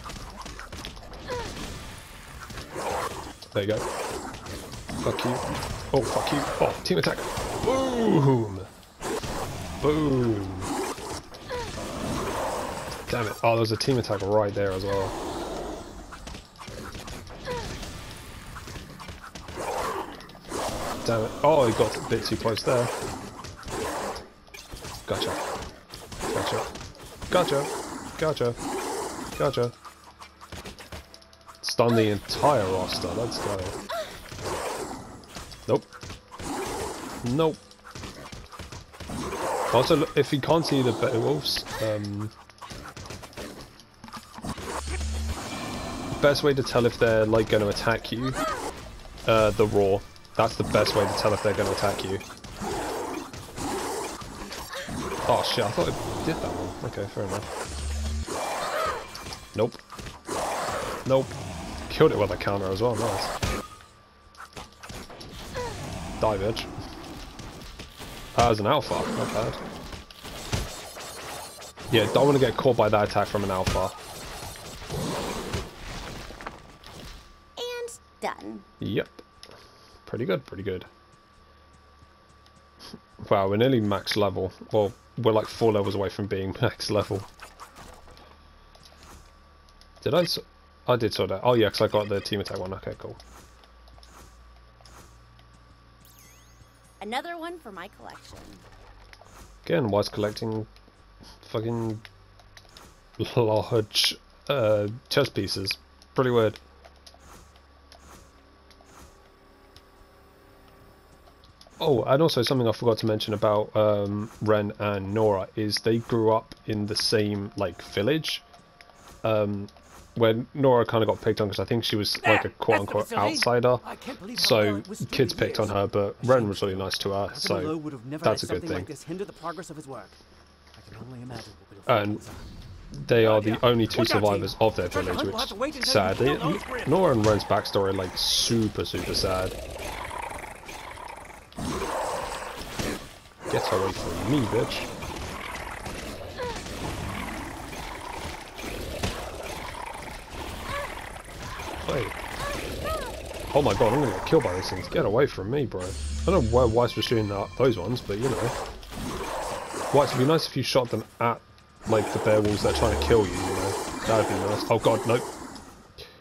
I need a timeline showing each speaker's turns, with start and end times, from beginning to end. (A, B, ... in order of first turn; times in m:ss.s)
0:03.6-0:03.8 A
0:05.0-0:08.7 A
0:09.8-0:10.7 A
0:13.1-0:15.1 A
0:21.0-0:22.9 A
0:25.1-0:25.4 A
0:26.3-0:26.7 A
0:27.3-0:28.6 A
0:29.4-0:29.7 A
0:31.6-0:33.8 A
0:37.2-0:37.6 A
0:39.7-0:42.3 A
0:46.2-0:48.4 A
0:49.3-0:52.2 A
0:55.2-0:57.5 A
1:01.0-1:01.4 A
1:01.9-1:03.3 A
1:06.2-1:06.7 A
1:08.4-1:09.6 A
1:11.9-1:14.0 A
1:17.6-1:18.7 B
1:18.8-1:19.2 A
1:20.0-1:20.9 A
1:23.2-1:27.3 A
1:30.0-1:33.2 A
1:37.0-1:38.6 B
1:39.6-1:40.7 A
1:41.4-1:42.0 A
1:43.2-1:46.6 A
1:51.8-1:58.4 A
1:59.2-2:08.9 A
2:02.2-2:10.2 C
2:10.8-2:12.5 C
2:11.9-2:12.2 A
2:13.0-2:19.6 A
2:13.1-2:17.1 C
2:23.5-2:24.9 A
2:31.8-2:32.2 A
2:33.5-2:38.5 A
2:39.9-2:45.2 A